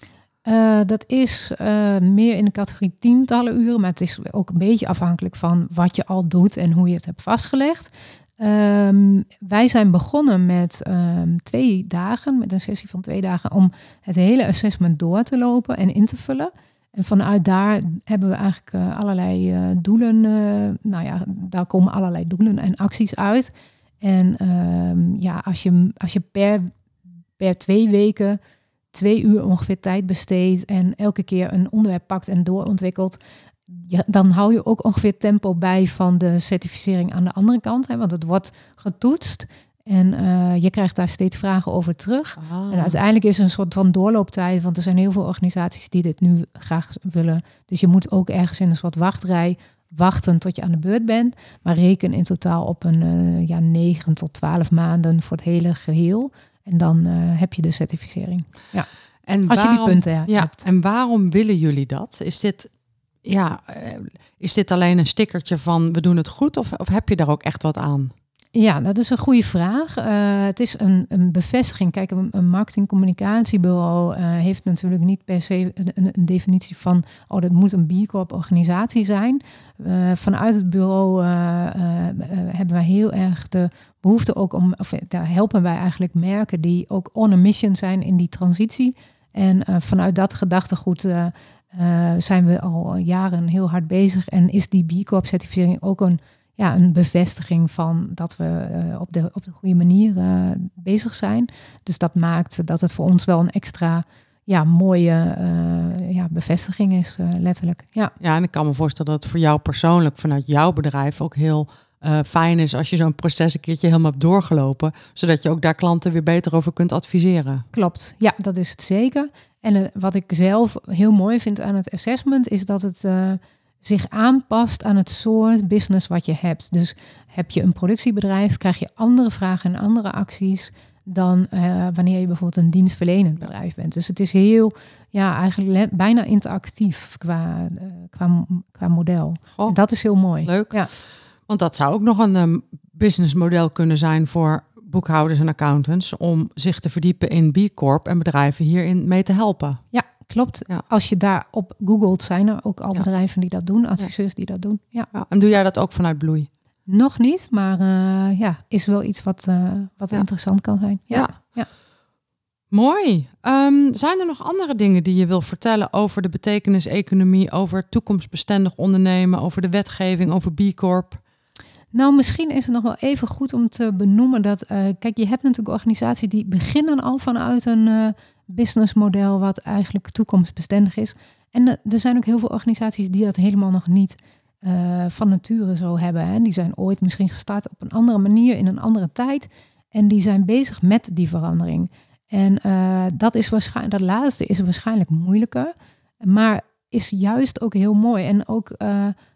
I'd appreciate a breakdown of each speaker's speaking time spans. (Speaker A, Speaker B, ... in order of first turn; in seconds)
Speaker A: 0.5-23.5, 24.0-26.7, 27.4-28.4, 28.9-58.9, 59.5-60.6, 68.5-108.1, 117.7-140.9, 149.9-155.1, 156.9-161.7, 171.9-199.1
Speaker B: 42.4-43.0, 59.3-62.7, 63.2-68.1, 108.2-117.6, 140.4-140.8, 141.5-149.8, 155.1-156.5, 162.7-171.2